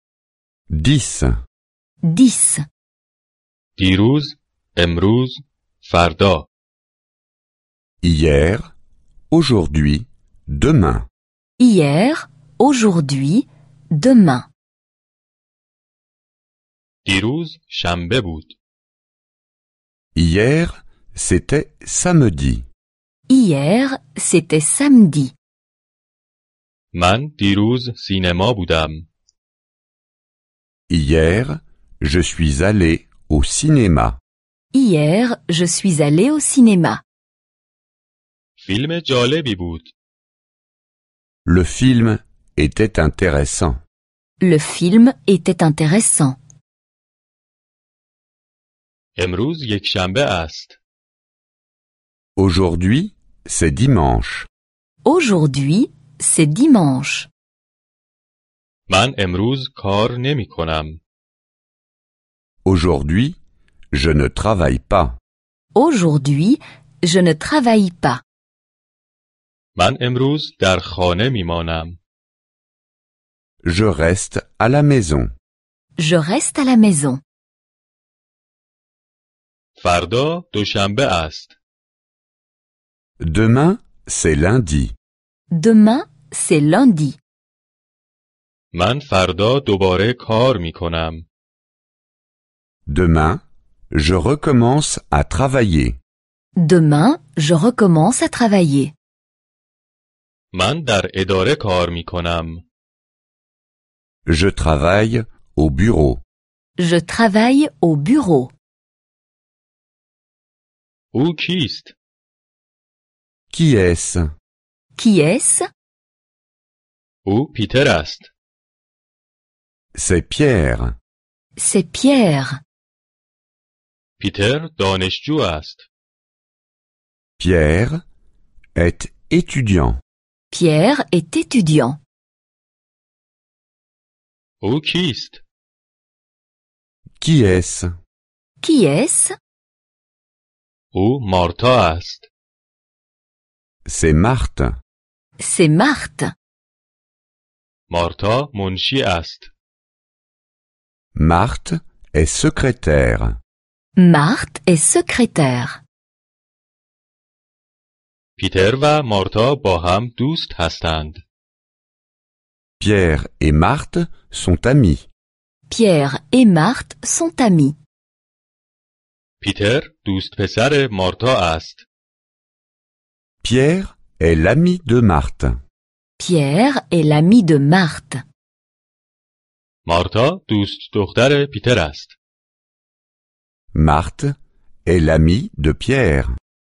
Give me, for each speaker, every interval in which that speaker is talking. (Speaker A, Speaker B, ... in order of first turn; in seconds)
Speaker A: 0.7-1.4, 8.0-8.7, 9.3-11.1, 20.1-22.6, 30.9-34.2, 41.5-43.8, 52.4-54.5, 62.6-63.4, 63.9-65.2, 73.7-75.3, 83.2-84.9, 92.9-93.4, 93.9-96.0, 104.3-106.2, 113.5-114.3, 120.0-120.9, 127.4-128.0, 128.8-130.0, 137.2-137.9, 143.9-144.8, 151.2-153.4, 162.8-165.1, 173.4-175.6, 183.7-186.3
Speaker B: 2.0-2.7, 11.6-14.5, 23.3-25.3, 34.7-37.0, 44.4-46.4, 55.0-57.3, 65.8-68.2, 76.0-77.2, 85.5-87.2, 96.6-98.9, 106.8-108.5, 115.0-115.7, 121.6-122.6, 130.5-132.0, 138.6-139.3, 145.4-146.3, 154.0-155.8, 165.7-167.8, 176.2-178.2
Speaker C: 3.8-6.5, 17.1-18.6, 26.9-29.1, 38.6-39.9, 49.2-50.8, 58.9-61.0, 69.8-72.0, 79.8-81.6, 88.7-91.3, 100.5-102.6, 111.1-112.0, 117.2-118.3, 124.2-125.9, 134.6-135.4, 140.9-142.3, 147.9-149.5, 158.4-161.2, 169.4-171.9, 179.9-182.2